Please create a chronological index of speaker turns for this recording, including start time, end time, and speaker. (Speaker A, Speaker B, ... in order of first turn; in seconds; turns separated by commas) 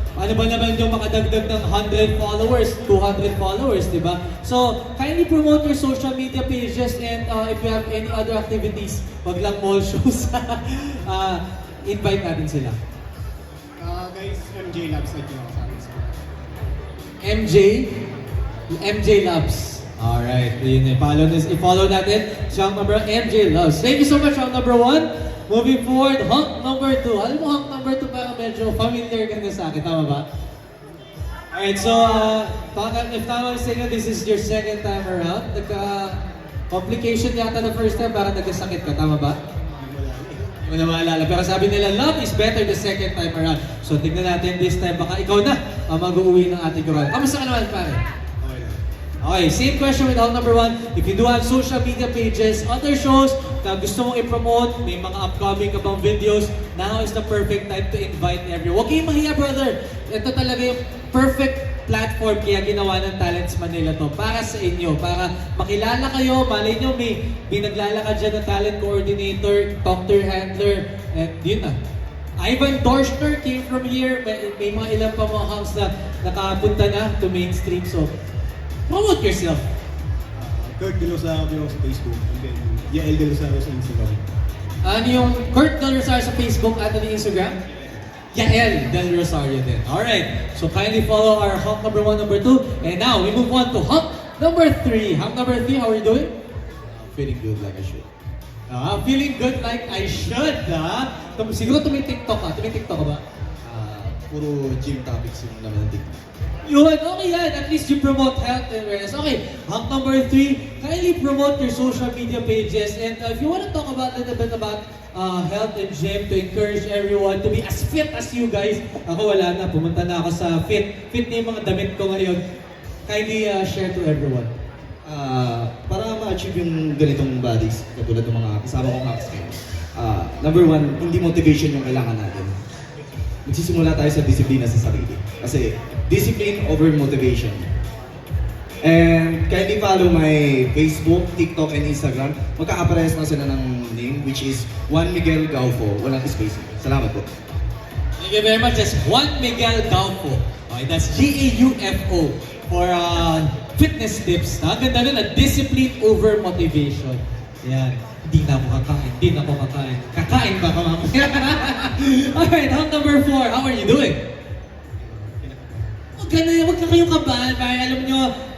Speaker A: 0.1-12.8, Speaker B: 13.8-16.2, Speaker A: 17.2-18.1, Speaker A: 18.7-30.2, Speaker A: 31.5-39.4, Speaker B: 39.7-40.6, Speaker A: 40.6-48.0, Speaker B: 48.4-48.8, Speaker A: 49.2-71.8, Speaker A: 72.4-78.1, Speaker A: 78.9-79.7, Speaker B: 80.3-84.2, Speaker A: 84.8-87.6, Speaker A: 88.3-96.3, Speaker C: 96.9-98.1, Speaker A: 98.7-103.2, Speaker C: 103.6-106.2, Speaker A: 106.7-122.4, Speaker A: 123.1-124.5, Speaker C: 125.0-132.5, Speaker C: 133.4-137.7, Speaker C: 138.8-147.3, Speaker A: 148.2-164.2, Speaker B: 165.0-165.9, Speaker A: 166.2-168.3